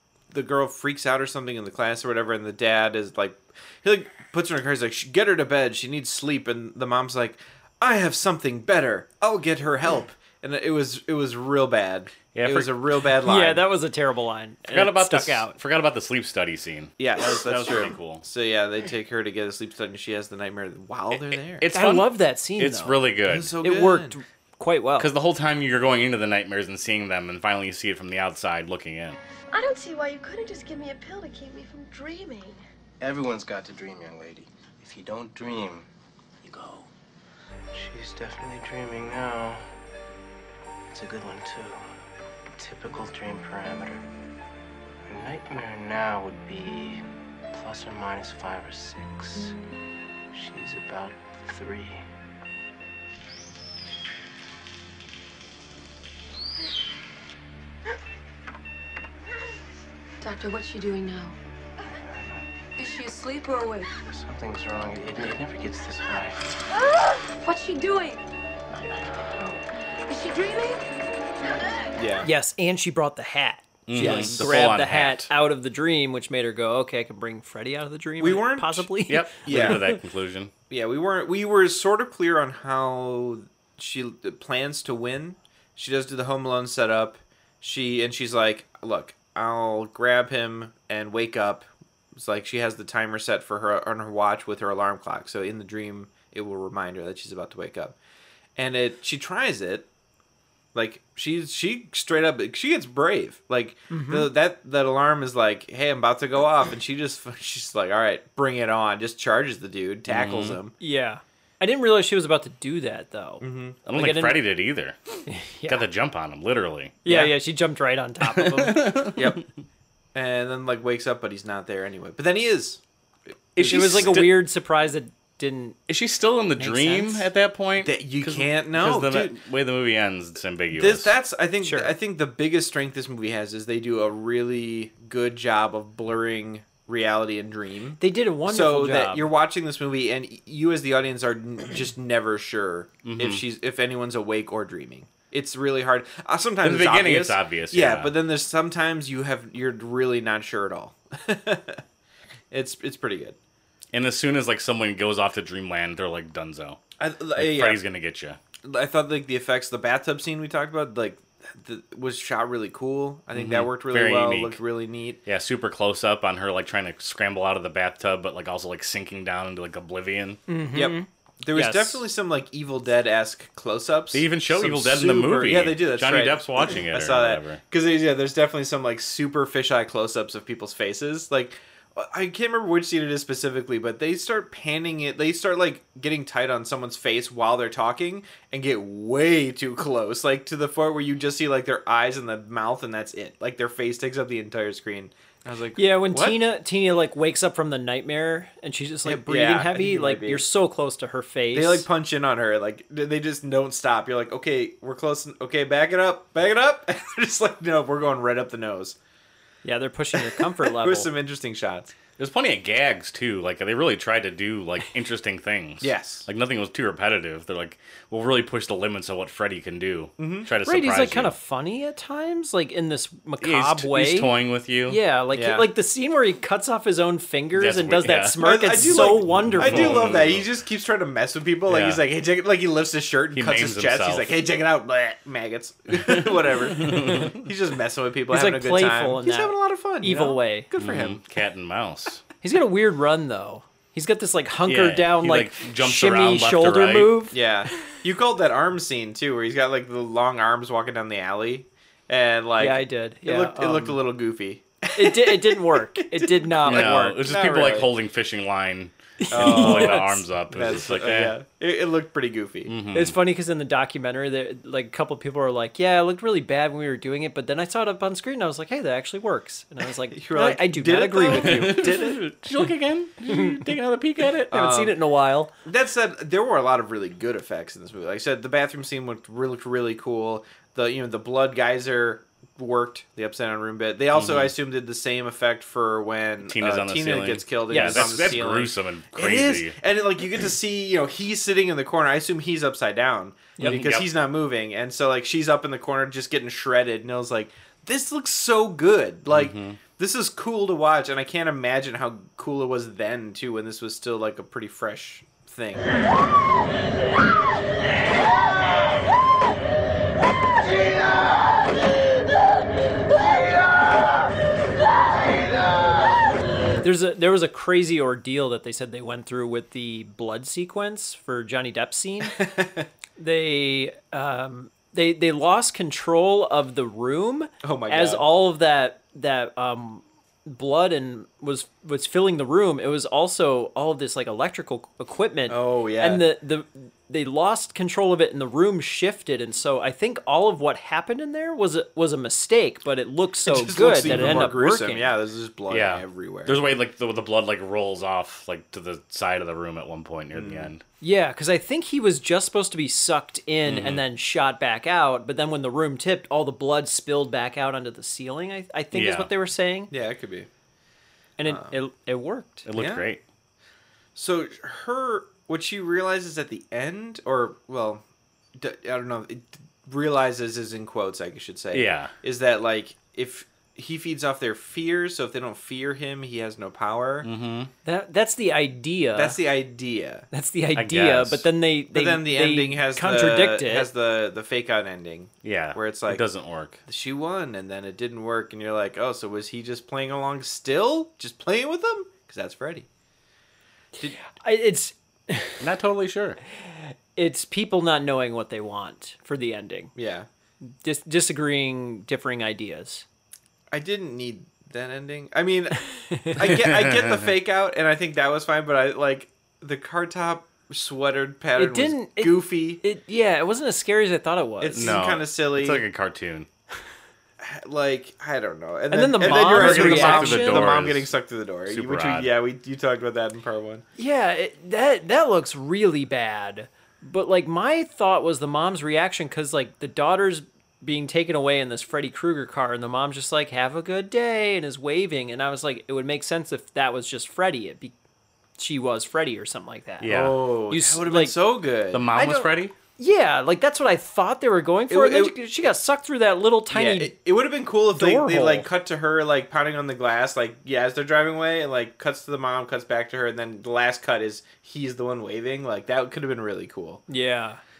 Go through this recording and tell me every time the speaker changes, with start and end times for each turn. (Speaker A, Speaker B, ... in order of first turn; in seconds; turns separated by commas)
Speaker A: 0.3-13.6, Speaker B: 12.3-12.7, Speaker C: 13.2-15.6, Speaker B: 14.7-18.2, Speaker A: 17.0-21.6, Speaker B: 21.5-23.5, Speaker C: 21.7-25.1, Speaker A: 23.3-24.2, Speaker B: 25.0-29.2, Speaker D: 29.5-32.6, Speaker E: 33.0-35.9, Speaker E: 36.4-36.9, Speaker E: 37.7-39.6, Speaker E: 40.9-41.8, Speaker E: 42.6-44.0, Speaker E: 45.0-49.5, Speaker E: 50.3-52.0, Speaker D: 60.2-61.3, Speaker E: 61.9-62.5, Speaker D: 62.8-63.9, Speaker E: 64.0-66.5, Speaker D: 66.8-68.2, Speaker E: 68.7-69.6, Speaker D: 70.1-70.8, Speaker A: 72.0-72.3, Speaker C: 72.2-79.9, Speaker B: 73.9-75.3, Speaker A: 73.9-74.7, Speaker A: 78.2-78.9, Speaker B: 79.1-80.5, Speaker A: 79.4-79.9, Speaker A: 80.7-98.0, Speaker A: 98.5-99.9, Speaker A: 100.7-110.7, Speaker C: 103.9-104.3, Speaker B: 110.1-110.6, Speaker C: 110.8-114.4, Speaker A: 113.4-113.8, Speaker B: 113.9-115.0, Speaker C: 115.3-115.9, Speaker B: 115.7-117.0, Speaker C: 117.0-119.1, Speaker A: 117.0-117.3, Speaker B: 118.3-119.4, Speaker A: 119.2-119.4, Speaker A: 120.1-122.8, Speaker A: 123.5-124.3, Speaker B: 123.5-124.4, Speaker C: 123.6-125.8, Speaker B: 125.9-131.1, Speaker C: 126.6-127.3, Speaker A: 127.8-129.4, Speaker A: 130.7-151.8, Speaker C: 131.6-131.9, Speaker C: 138.0-139.3, Speaker B: 143.0-143.4, Speaker B: 146.6-148.2, Speaker A: 152.5-153.4, Speaker B: 153.9-156.8, Speaker A: 157.0-157.8, Speaker B: 157.3-158.4, Speaker A: 158.6-165.2, Speaker B: 163.3-164.6, Speaker B: 165.2-170.4, Speaker C: 170.5-172.0, Speaker A: 170.7-196.4, Speaker B: 174.1-177.6, Speaker C: 195.8-201.8, Speaker A: 199.0-200.4, Speaker A: 201.5-209.0, Speaker C: 209.6-211.1, Speaker A: 210.1-211.9, Speaker B: 212.2-221.3, Speaker A: 215.8-216.3, Speaker A: 220.2-220.5, Speaker C: 220.6-224.3, Speaker B: 223.4-225.0, Speaker C: 224.8-230.2, Speaker A: 225.3-225.7, Speaker B: 227.5-230.4, Speaker A: 228.4-241.2, Speaker B: 231.7-232.0, Speaker B: 233.3-234.3, Speaker B: 236.0-237.4, Speaker C: 238.3-240.7, Speaker B: 240.8-242.2, Speaker C: 242.4-247.4, Speaker B: 244.7-247.2, Speaker A: 247.3-257.9, Speaker C: 252.6-254.0, Speaker C: 254.9-257.2, Speaker B: 256.6-261.4, Speaker C: 259.2-260.2, Speaker A: 259.3-262.7, Speaker B: 262.7-263.1, Speaker C: 262.9-272.0, Speaker A: 270.1-272.3, Speaker B: 271.3-274.5, Speaker C: 273.3-273.6, Speaker C: 274.5-275.5, Speaker A: 274.5-274.9, Speaker A: 275.6-305.9, Speaker B: 284.1-284.5, Speaker B: 286.4-289.8, Speaker C: 287.7-288.2, Speaker C: 293.6-293.9, Speaker B: 293.6-294.1, Speaker B: 299.3-299.8, Speaker C: 316.8-322.5, Speaker A: 322.4-322.9, Speaker C: 323.2-345.1, Speaker A: 327.6-328.3, Speaker A: 335.5-336.3, Speaker A: 343.4-346.6, Speaker B: 344.1-344.5, Speaker B: 345.7-350.8, Speaker A: 350.3-350.7, Speaker C: 351.0-359.9, Speaker B: 353.6-354.0, Speaker B: 358.9-359.3, Speaker A: 359.9-360.5, Speaker C: 361.4-362.7, Speaker A: 361.4-361.8, Speaker B: 362.6-363.2, Speaker A: 362.7-363.1, Speaker A: 364.1-368.0, Speaker A: 368.6-377.3, Speaker B: 371.7-372.1, Speaker B: 377.2-377.7, Speaker C: 377.8-379.4, Speaker A: 379.1-380.3, Speaker C: 380.3-383.9, Speaker B: 380.7-381.4, Speaker A: 381.9-386.2, Speaker B: 385.4-386.8, Speaker A: 386.9-392.9, Speaker C: 394.4-395.6, Speaker B: 395.6-396.4, Speaker C: 396.7-399.9, Speaker A: 399.9-400.3, Speaker C: 400.8-403.0, Speaker A: 403.7-412.8, Speaker C: 406.1-406.4, Speaker B: 406.4-407.3, Speaker C: 411.6-415.0, Speaker A: 414.6-415.8, Speaker B: 414.7-416.5, Speaker A: 417.4-423.8, Speaker C: 418.9-420.7, Speaker B: 419.2-421.1, Speaker B: 421.7-422.3, Speaker C: 424.0-437.9, Speaker C: 438.6-441.4, Speaker B: 440.0-440.4, Speaker A: 440.0-442.5, Speaker B: 441.9-442.7, Speaker C: 443.0-447.1, Speaker A: 444.9-445.4, Speaker A: 446.7-457.0, Speaker C: 447.9-448.7, Speaker C: 457.1-457.6